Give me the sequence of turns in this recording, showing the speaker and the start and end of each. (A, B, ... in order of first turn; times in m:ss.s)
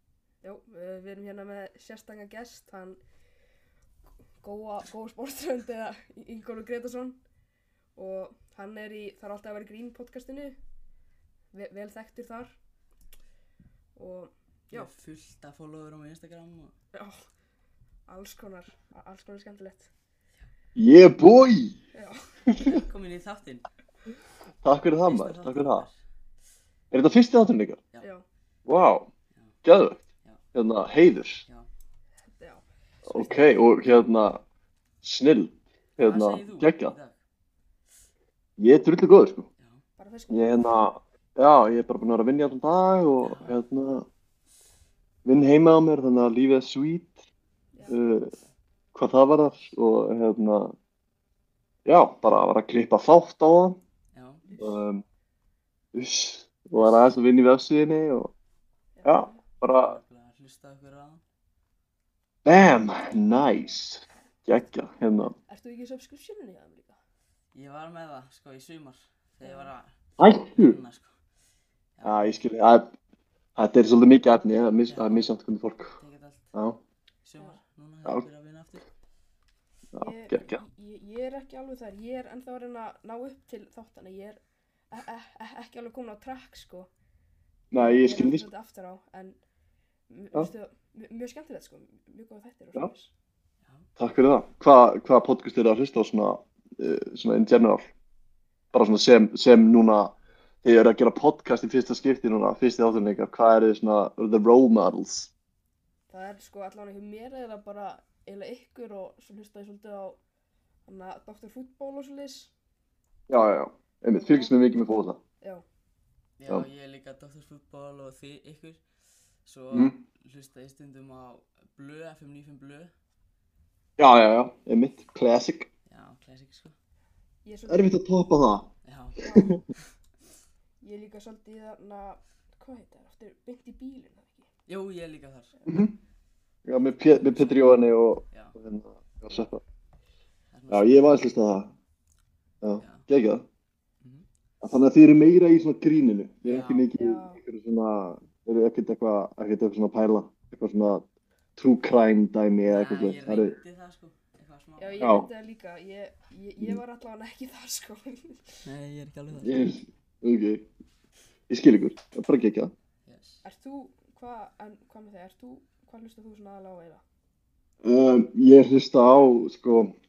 0:00.4-0:03.0 A
0:04.4-0:07.2 A
0:08.0-0:10.6 A
0:11.5-0:12.5 A
0:14.0-0:14.9 A
0:14.7-0:16.7 B
0:16.9-0:17.3 A
0:18.1-0:19.9 A
0:20.8-0:21.8 C
0:21.9-0:22.2 A
0:22.5-0:22.8 C
0:22.6-0:23.7 B
0:24.6-0:25.8 C
0:25.0-0:25.9 B
0:26.9-0:27.8 C
0:28.6-0:29.1 C
0:29.6-0:30.0 C
0:30.5-0:31.4 C
0:32.2-0:32.6 A
0:33.1-0:33.5 B
0:33.1-0:34.4 C
0:35.0-0:36.9 C
0:36.0-0:37.1 B
0:38.6-0:39.4 C
0:40.0-0:40.7 A
0:40.3-0:44.1 C
0:43.2-0:43.6 B
0:45.2-0:47.2 C
0:47.7-0:48.0 A
0:47.9-0:48.3 C
0:48.9-0:50.7 C
0:51.8-0:53.8 C
0:54.1-0:54.4 B
0:54.4-0:54.8 A
0:54.6-0:55.0 C
0:55.9-0:58.3 C
0:58.9-0:59.4 A
0:59.0-1:00.0 C
0:59.7-1:01.2 B
1:02.4-1:05.4 C
1:05.5-1:07.0 A
1:07.5-1:10.0 B
1:09.4-1:09.7 A
1:10.2-1:10.8 C
1:10.5-1:11.1 B
1:12.0-1:12.4 B
1:12.0-1:12.9 C
1:13.6-1:16.0 C
1:14.9-1:15.3 B
1:16.0-1:16.5 B
1:16.5-1:16.8 C
1:17.2-1:18.8 B
1:19.9-1:20.6 C
1:20.0-1:24.4 A
1:24.9-1:26.9 A
1:27.7-1:28.4 C
1:27.7-1:29.4 A
1:30.1-1:33.1 A
1:34.0-1:37.8 C
1:38.7-1:45.3 C
1:46.1-1:50.2 A
1:50.9-1:52.5 A
1:53.3-1:55.2 C
1:54.1-1:54.5 A
1:56.4-1:58.8 B
1:59.4-2:02.9 B
2:04.0-2:05.7 C
2:05.9-2:06.7 B
2:07.4-2:07.9 A
2:07.7-2:08.7 C
2:08.8-2:09.2 B
2:09.2-2:09.6 A
2:09.3-2:09.6 C
2:10.8-2:14.5 A
2:14.7-2:15.6 B
2:15.6-2:15.8 A
2:15.7-2:15.9 C
2:16.6-2:19.6 C
2:17.0-2:17.8 B
2:20.5-2:21.3 B
2:20.7-2:21.7 C
2:22.6-2:23.4 C
2:22.8-2:23.1 B
2:24.0-2:24.2 B
2:24.6-2:31.0 C
2:26.4-2:26.9 B
2:26.9-2:27.4 A
2:31.6-2:33.6 C
2:32.6-2:35.1 B
2:34.8-2:38.6 A
2:35.0-2:35.3 C
2:38.6-2:39.5 B
2:39.3-2:40.6 C
2:41.5-2:42.7 C
2:43.0-2:43.4 B
2:43.4-2:47.0 A
2:47.8-2:49.9 C